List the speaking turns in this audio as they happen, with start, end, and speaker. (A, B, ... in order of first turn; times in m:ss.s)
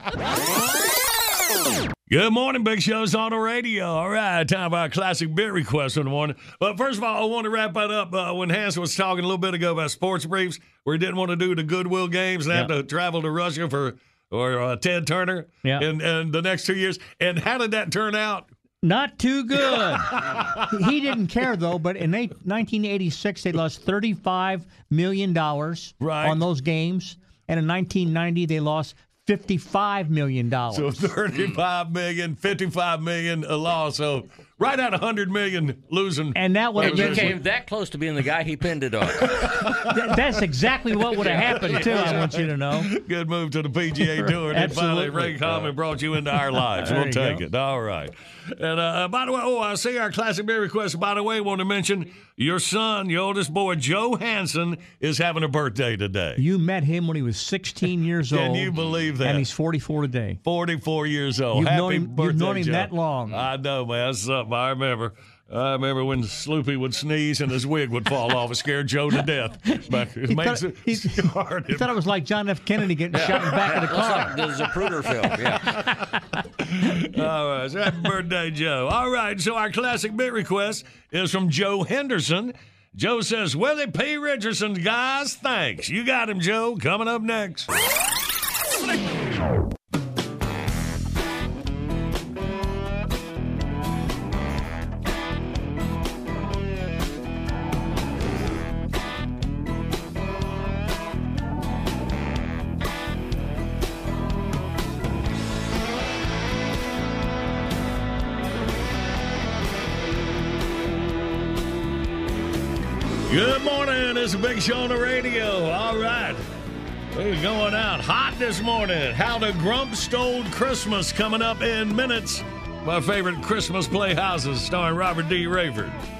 0:02.1-0:18.5 A
0:18.8-0:20.2 B
0:19.6-0:20.6 A
0:20.7-0:30.9 B
0:26.0-0:26.4 A
0:30.7-0:37.4 A
0:36.3-0:37.4 B
0:36.8-0:39.3 C
0:39.2-0:39.9 A
0:39.9-0:42.9 B
0:41.2-0:56.4 A
0:41.3-0:42.2 C
0:44.2-0:45.5 B
0:46.6-0:47.4 B
0:56.4-1:00.4 B
0:58.3-0:59.5 A
1:00.4-1:11.9 A
1:01.5-1:03.5 B
1:10.3-1:14.7 B
1:13.1-1:15.6 C
1:16.8-1:27.7 A
1:53.3-1:56.4 A
1:57.1-2:06.0 A